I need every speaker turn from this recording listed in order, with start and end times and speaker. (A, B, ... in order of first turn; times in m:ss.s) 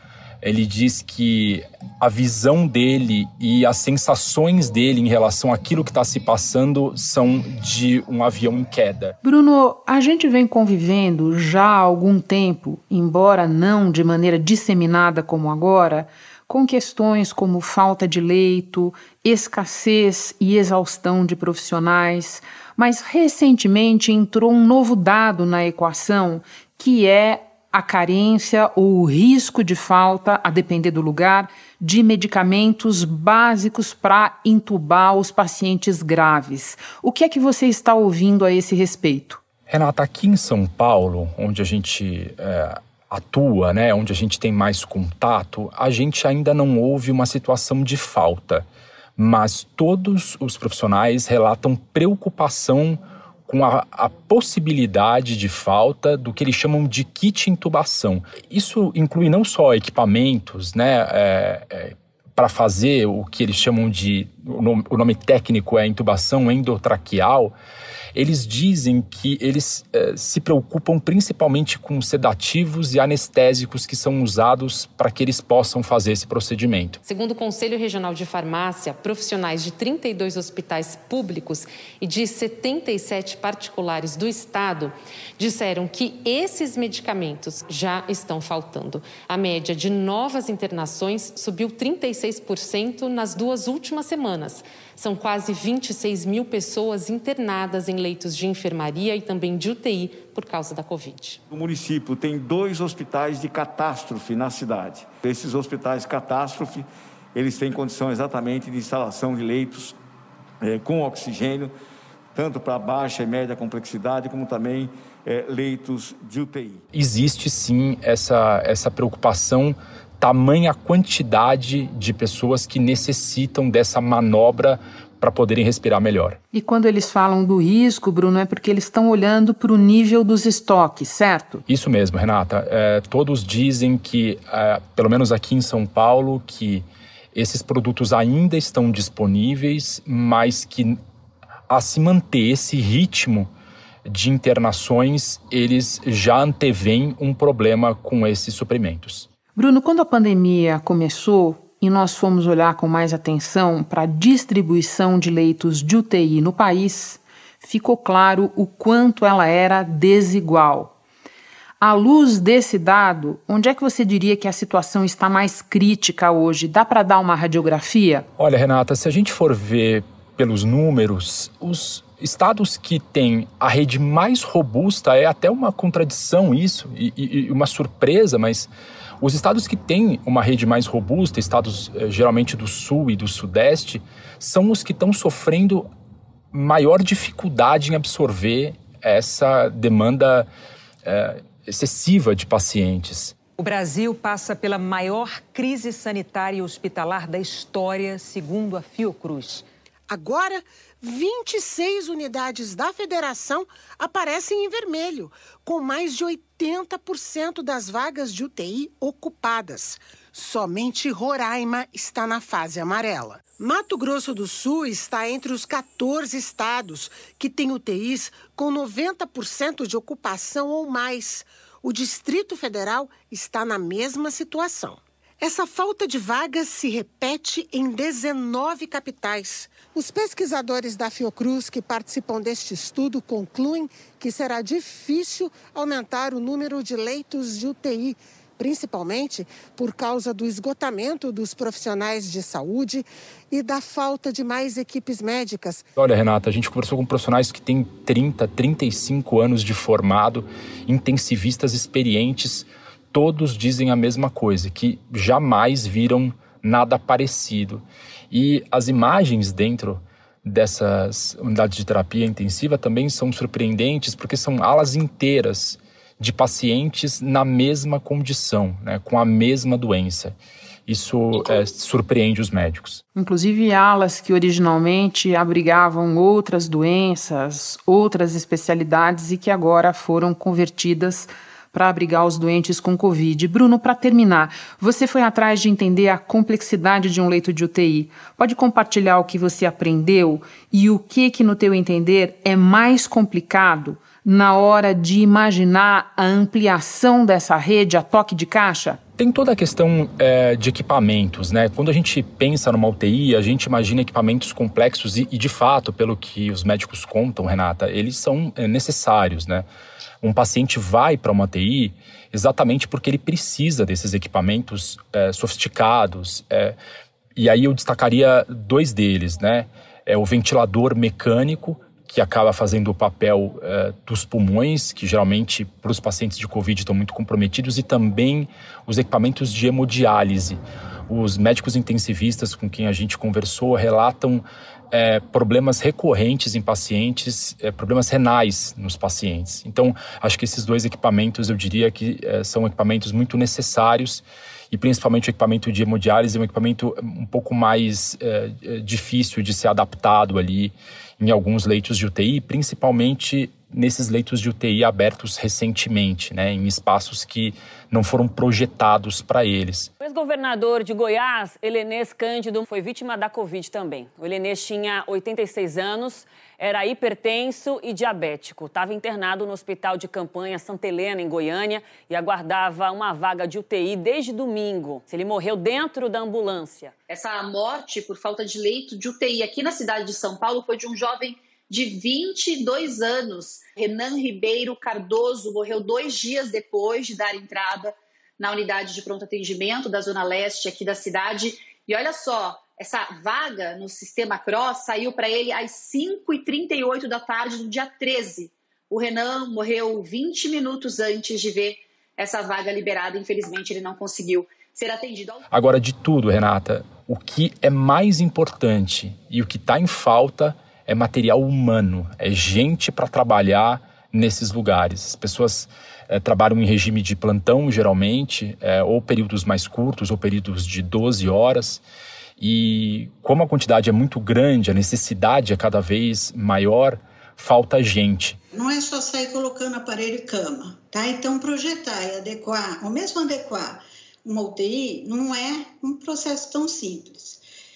0:00.4-0:09.2 A
0:09.2-0:39.4 B
0:39.7-0:48.7 A
0:49.2-1:07.6 A
1:08.1-1:17.0 A
1:17.0-1:41.4 C
1:41.5-1:46.8 D
1:47.4-1:50.0 D
1:50.7-1:51.7 D
1:52.4-1:56.8 D
1:56.9-2:06.4 A
2:06.5-2:11.6 B
2:11.7-2:21.0 A
2:21.7-2:23.5 A
2:24.1-2:29.3 A
2:29.6-2:41.0 B
2:41.8-2:48.3 B
2:48.4-3:05.9 A
3:06.5-3:10.5 A
3:11.0-3:13.4 A
3:13.6-3:19.6 E
3:20.1-4:05.8 F
4:06.0-4:33.0 A
4:33.2-4:59.0 B
4:59.2-5:09.7 A
5:10.2-5:16.8 A
5:17.4-5:59.9 A
6:00.0-6:16.9 G
6:17.1-6:45.4 H
6:45.5-7:01.8 A
7:02.4-7:08.4 A
7:08.5-7:17.4 I